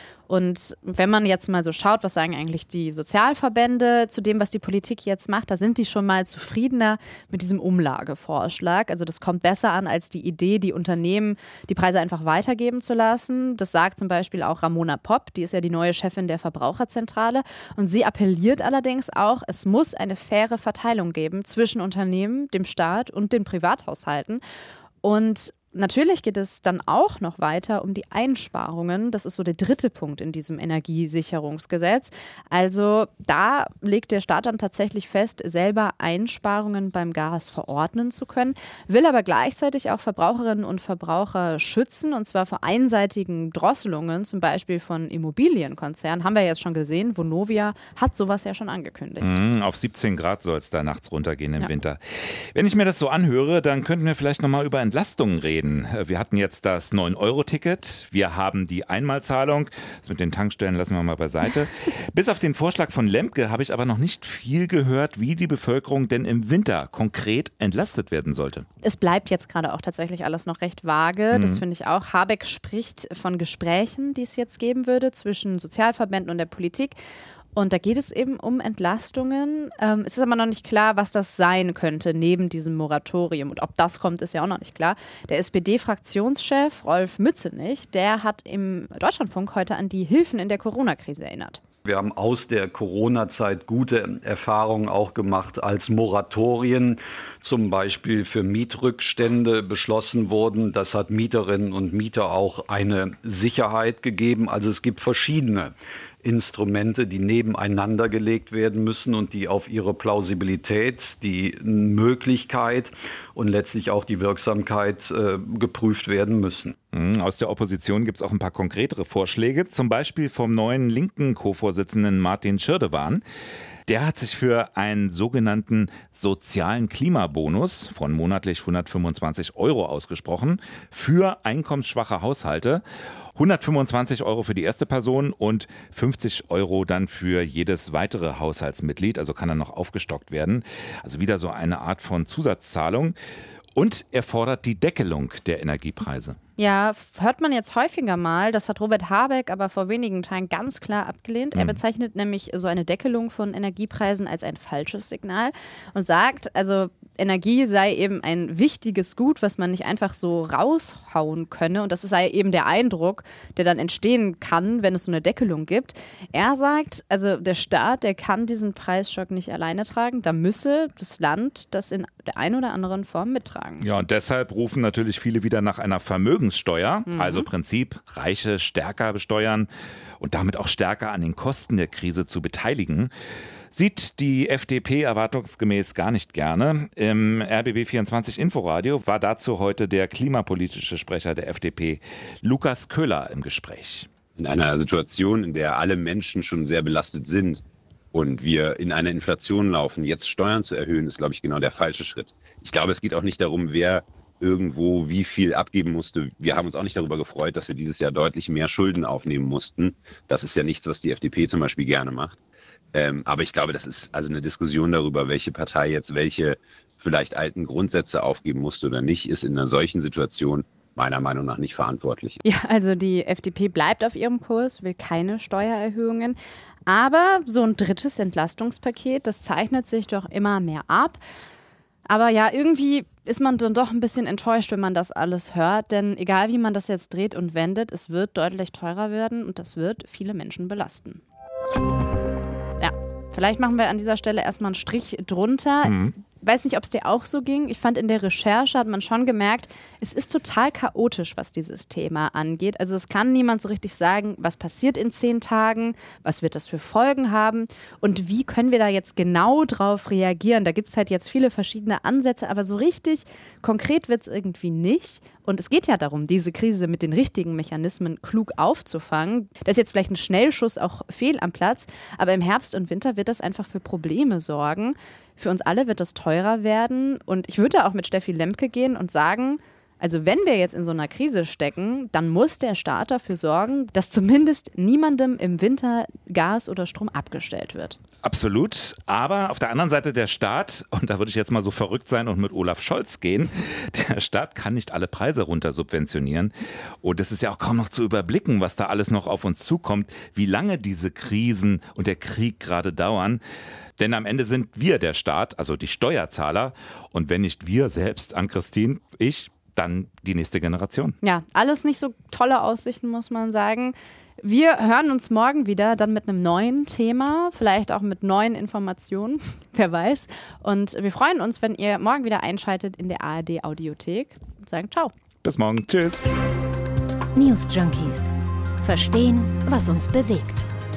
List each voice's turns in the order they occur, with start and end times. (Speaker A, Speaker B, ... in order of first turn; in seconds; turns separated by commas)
Speaker A: 0.3-24.4, Speaker A: 25.0-49.4, Speaker B: 49.2-68.7, Speaker A: 68.8-77.0, Speaker B: 71.3-71.6, Speaker A: 77.5-91.6, Speaker C: 91.8-116.8, Speaker B: 116.9-123.2, Speaker B: 123.9-132.8, Speaker B: 133.4-143.2, Speaker B: 143.8-146.4, Speaker A: 146.6-173.8, Speaker B: 173.8-179.7, Speaker A: 177.1-177.5, Speaker B: 180.2-183.1, Speaker B: 183.7-194.1, Speaker D: 194.4-197.6, Speaker D: 198.1-212.4, Speaker D: 212.9-222.4, Speaker A: 222.4-231.2, Speaker A: 232.1-241.2, Speaker A: 242.8-288.0, Speaker B: 245.8-246.1, Speaker B: 288.2-303.4, Speaker B: 304.0-311.2, Speaker A: 311.2-325.1, Speaker B: 325.4-326.2, Speaker E: 327.4-330.7